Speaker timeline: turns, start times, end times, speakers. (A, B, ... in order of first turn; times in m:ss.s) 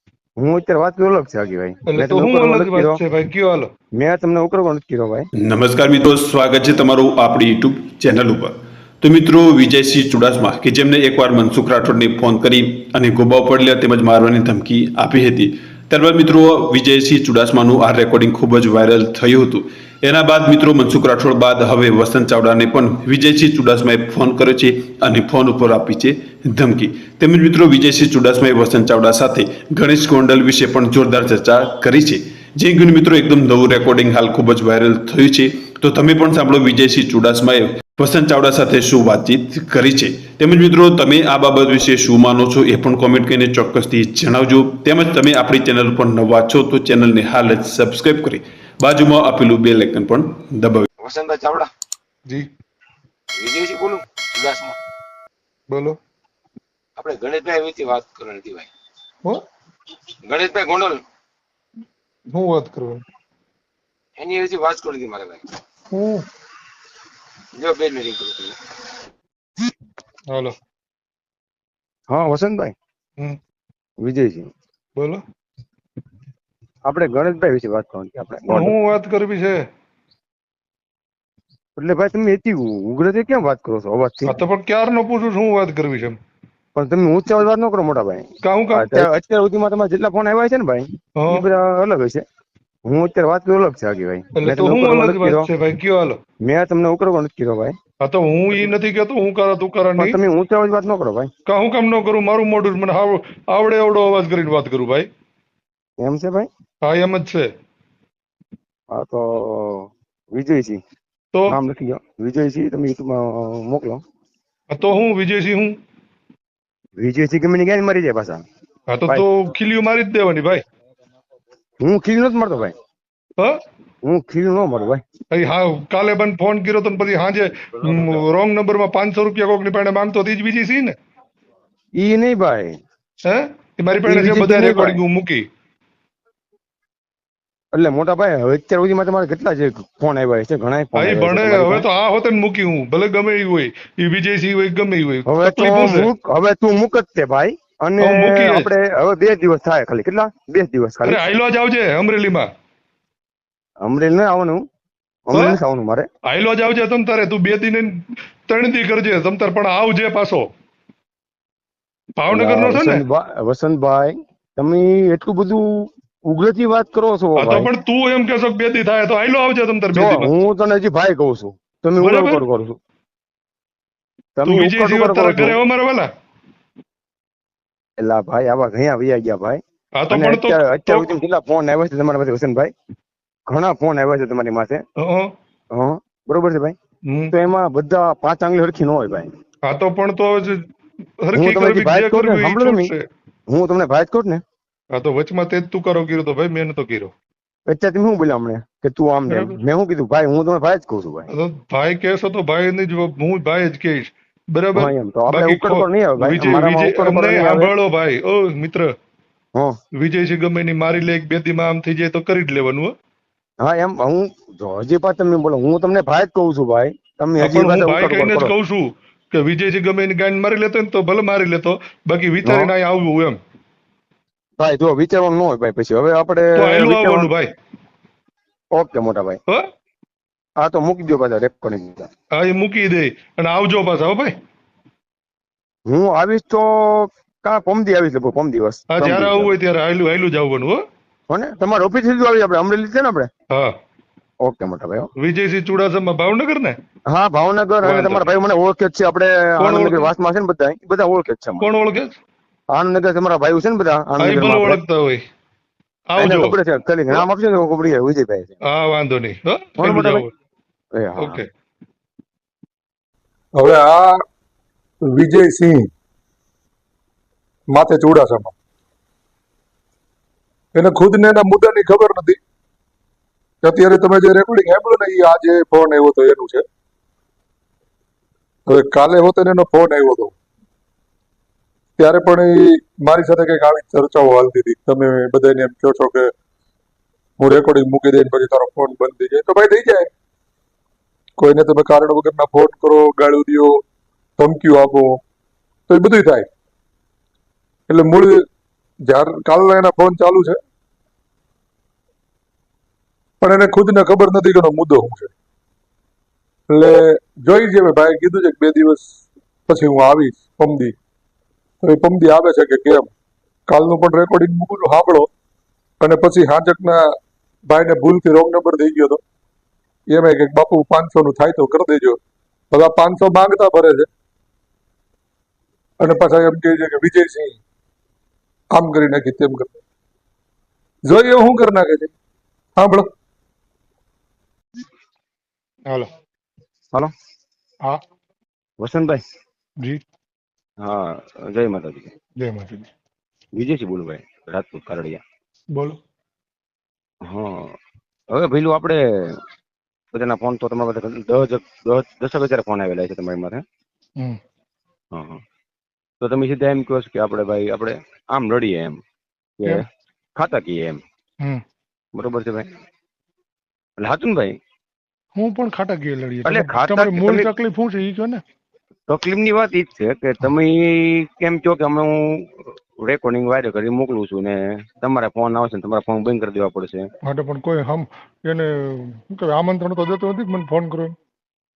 0:00.4-0:03.0 A
0:01.9-0:03.7 B
0:04.0-0:05.3 A
0:05.4-0:50.9 C
0:51.0-0:51.7 A
0:53.4-0:54.8 A
0:55.7-0:56.0 B
0:57.0-0:58.7 A
1:00.2-1:01.0 A
1:02.3-1:03.0 B
1:04.2-1:05.4 A
1:05.9-1:06.3 B
1:07.5-1:08.6 A
1:12.1-1:12.7 A
1:14.0-1:14.5 A
1:15.0-1:15.2 B
1:16.8-1:18.7 A
1:18.5-1:19.6 B
1:21.8-1:24.4 A
1:24.3-1:26.2 B
1:26.8-1:32.2 A
1:28.4-1:29.1 B
1:32.9-1:35.5 A
1:34.3-1:36.2 B
1:36.4-1:37.8 A
1:38.0-1:40.1 B
1:40.0-1:41.3 A
1:41.5-1:45.1 B
1:46.0-1:46.5 A
1:46.8-1:47.5 B
1:48.9-1:50.8 A
1:51.5-1:54.0 A
1:54.7-1:55.7 B
1:57.0-1:58.4 A
1:58.9-2:00.6 B
2:01.8-2:02.7 A
2:04.0-2:05.0 A
2:05.3-2:10.9 B
2:12.0-2:12.8 A
2:13.3-2:15.4 B
2:14.0-2:15.0 A
2:17.7-2:21.8 A
2:21.0-2:26.1 B
2:25.2-2:31.3 A
2:28.0-2:28.7 B
2:31.0-2:32.5 B
2:33.8-2:34.6 A
2:35.3-2:36.1 A
2:36.3-2:38.0 B
2:38.5-2:40.4 B
2:42.2-2:43.0 B
2:42.3-2:47.7 A
2:47.4-2:50.3 B
2:49.9-2:52.8 A
2:52.0-2:52.4 B
2:54.4-2:55.6 A
2:54.4-2:56.1 B
2:58.0-3:02.7 A
3:00.0-3:01.1 B
3:03.5-3:04.8 A
3:05.0-3:05.3 B
3:05.7-3:06.8 A
3:07.3-3:09.3 A
3:09.6-3:10.6 B
3:11.2-3:13.0 B
3:11.3-3:12.9 A
3:13.5-3:14.4 A
3:14.9-3:17.1 B
3:17.7-3:21.3 A
3:19.3-3:19.6 B
3:21.3-3:28.9 B
3:24.8-3:27.7 A
3:30.0-3:32.9 B
3:33.6-3:38.5 A
3:37.4-3:43.4 B
3:42.4-3:42.7 A
3:44.6-3:47.3 A
3:46.6-3:47.5 B
3:48.7-3:49.4 A
3:50.6-3:52.1 A
3:52.4-3:54.3 B
3:55.9-3:59.5 A
3:58.9-4:00.8 B
4:01.3-4:03.3 A
4:04.4-4:05.1 A
4:05.2-4:06.8 B
4:07.1-4:11.7 A
4:07.8-4:08.3 B
4:09.6-4:10.1 B
4:11.6-4:12.1 B
4:12.7-4:14.8 A
4:14.2-4:15.2 B
4:16.1-4:16.5 B
4:16.2-4:18.6 A
4:18.7-4:20.3 B
4:19.8-4:20.2 A
4:20.9-4:21.4 A
4:21.2-4:21.4 B
4:23.6-4:24.2 D
4:25.0-4:25.9 D
4:27.7-4:28.5 D
4:30.7-4:32.4 D
4:33.6-4:36.6 D
4:38.7-4:40.3 D
4:42.0-4:46.3 D
4:47.4-4:50.1 D
4:51.4-4:53.8 D
4:54.4-4:55.2 D
4:55.9-4:56.5 D
4:57.9-4:58.4 D
4:59.1-5:00.6 D
5:03.4-5:05.3 D
5:06.7-5:09.1 D
5:09.7-5:10.9 D
5:11.8-5:13.1 D
5:13.7-5:15.3 D
5:16.0-5:17.1 D
5:17.7-5:19.2 D
5:20.1-5:22.2 D
5:22.7-5:24.1 D
5:26.0-5:27.6 D
5:28.7-5:29.7 D
5:31.0-5:32.1 D
5:32.8-5:33.1 D
5:38.8-5:39.2 A
5:40.8-5:42.1 A
5:42.4-5:42.9 B
5:43.6-5:45.2 A
5:47.2-5:47.7 A
5:48.3-5:49.4 A
5:50.1-5:53.6 A
5:55.1-5:55.4 A
5:56.2-5:59.0 A
5:59.6-5:59.8 A
6:00.4-6:01.0 A
6:02.1-6:02.7 A
6:04.0-6:04.6 A
6:05.4-6:08.4 B
6:06.4-6:07.5 A
6:09.1-6:17.1 A
6:17.3-6:21.1 B